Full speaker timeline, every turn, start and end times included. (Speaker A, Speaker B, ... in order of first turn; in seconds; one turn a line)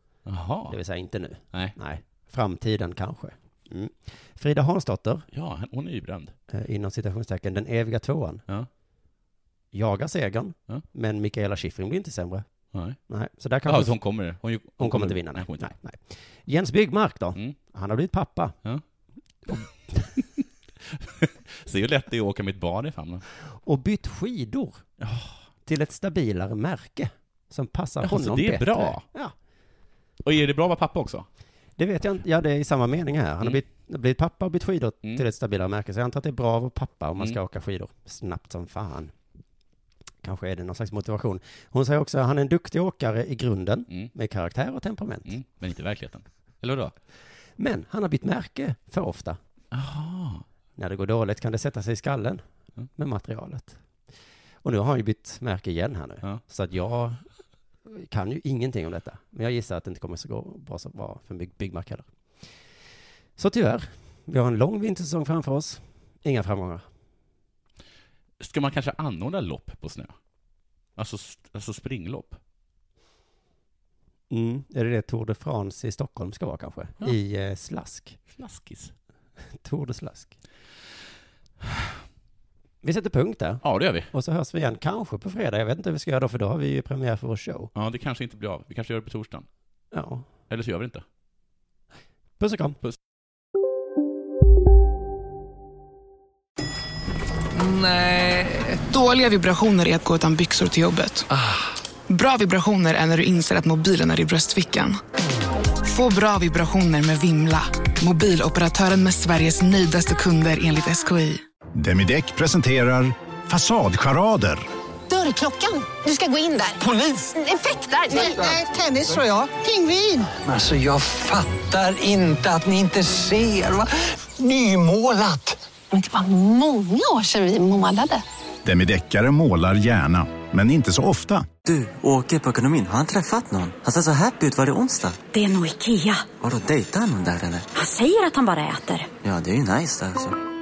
Speaker A: 0.2-0.8
Speaker B: 0.7-5.3
Speaker A: 5.3-6.3
Speaker B: 6.5-8.4
Speaker B: 9.7-12.4
Speaker A: 12.7-13.0
Speaker B: 13.1-14.0
Speaker A: 13.7-15.7
Speaker B: 14.8-18.6
Speaker A: 20.2-23.2
Speaker B: 23.4-24.8
Speaker A: 25.0-25.4
Speaker B: 25.6-29.3
Speaker A: 28.0-29.0
Speaker A: 30.2-31.3
Speaker B: 31.8-39.1
Speaker B: 40.2-45.3
Speaker A: 45.2-46.9
Speaker B: 47.6-49.4
Speaker A: 49.7-50.4
Speaker B: 50.8-52.4
Speaker B: 53.0-53.8
Speaker B: 54.6-57.2
Speaker B: 57.9-62.1
Speaker B: 63.4-66.8
Speaker A: 68.4-70.1
Speaker A: 71.0-72.4
Speaker B: 74.3-78.2
Speaker A: 78.3-78.9
Speaker B: 79.6-80.3
Speaker B: 82.8-87.7
Speaker A: 83.6-84.1
Speaker A: 87.7-89.5
Speaker B: 89.9-90.2
Speaker A: 90.5-91.0
Speaker B: 92.4-92.8
Speaker C: 97.6-98.7
Speaker D: 98.9-101.3
Speaker C: 101.3-101.6
Speaker D: 102.1-105.0
Speaker D: 105.8-111.4
Speaker E: 111.8-114.6
Speaker F: 115.1-120.3
Speaker C: 120.4-125.6
Speaker F: 126.2-127.8
Speaker E: 128.6-131.5
Speaker G: 131.6-135.3
Speaker H: 135.3-136.3
Speaker G: 136.3-137.7
Speaker H: 137.7-139.1
Speaker G: 139.2-140.4